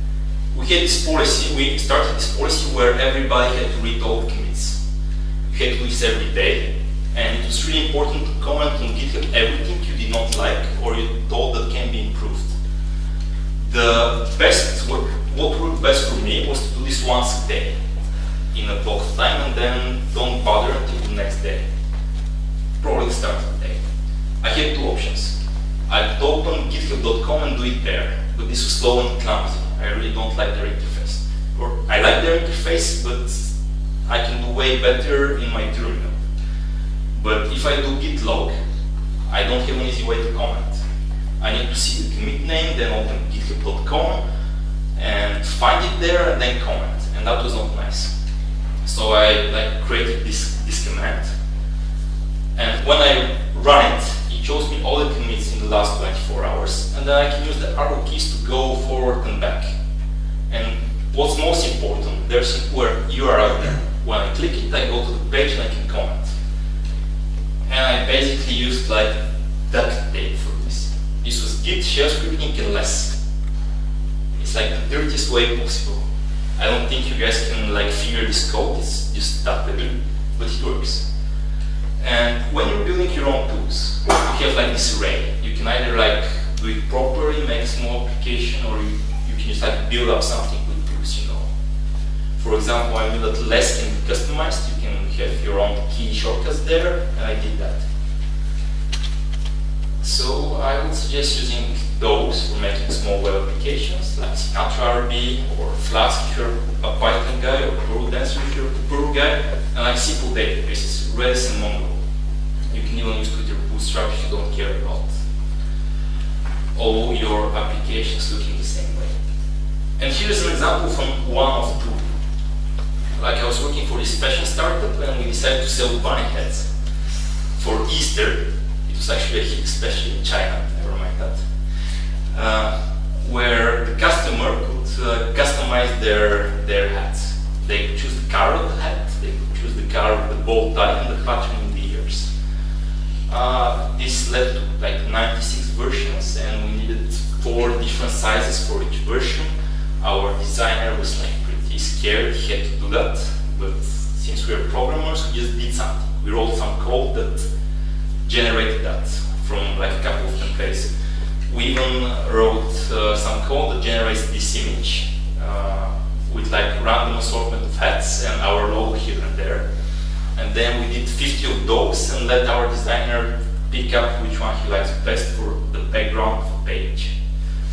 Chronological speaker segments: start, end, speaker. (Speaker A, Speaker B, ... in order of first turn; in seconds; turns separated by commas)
Speaker A: 0.5-4.8, Speaker A: 5.5-12.5, Speaker A: 13.6-17.7, Speaker A: 18.5-21.6, Speaker A: 22.8-23.8, Speaker A: 24.4-25.3, Speaker A: 25.9-33.5, Speaker A: 34.0-36.1, Speaker A: 37.1-38.5, Speaker A: 39.3-40.8, Speaker A: 41.4-44.2, Speaker A: 45.0-48.1, Speaker A: 48.8-51.3, Speaker A: 52.5-59.7, Speaker A: 60.5-66.3, Speaker A: 67.7-73.2, Speaker A: 74.4-76.0, Speaker A: 76.6-81.0, Speaker A: 82.0-91.5, Speaker A: 92.4-97.8, Speaker A: 100.0-112.0, Speaker A: 112.7-115.1, Speaker A: 116.7-119.1, Speaker A: 120.0-122.0, Speaker A: 123.2-126.7, Speaker A: 127.5-131.5, Speaker A: 132.3-142.3, Speaker A: 143.3-149.5, Speaker A: 150.0-157.5, Speaker A: 158.2-160.9, Speaker A: 161.5-169.6, Speaker A: 170.3-177.1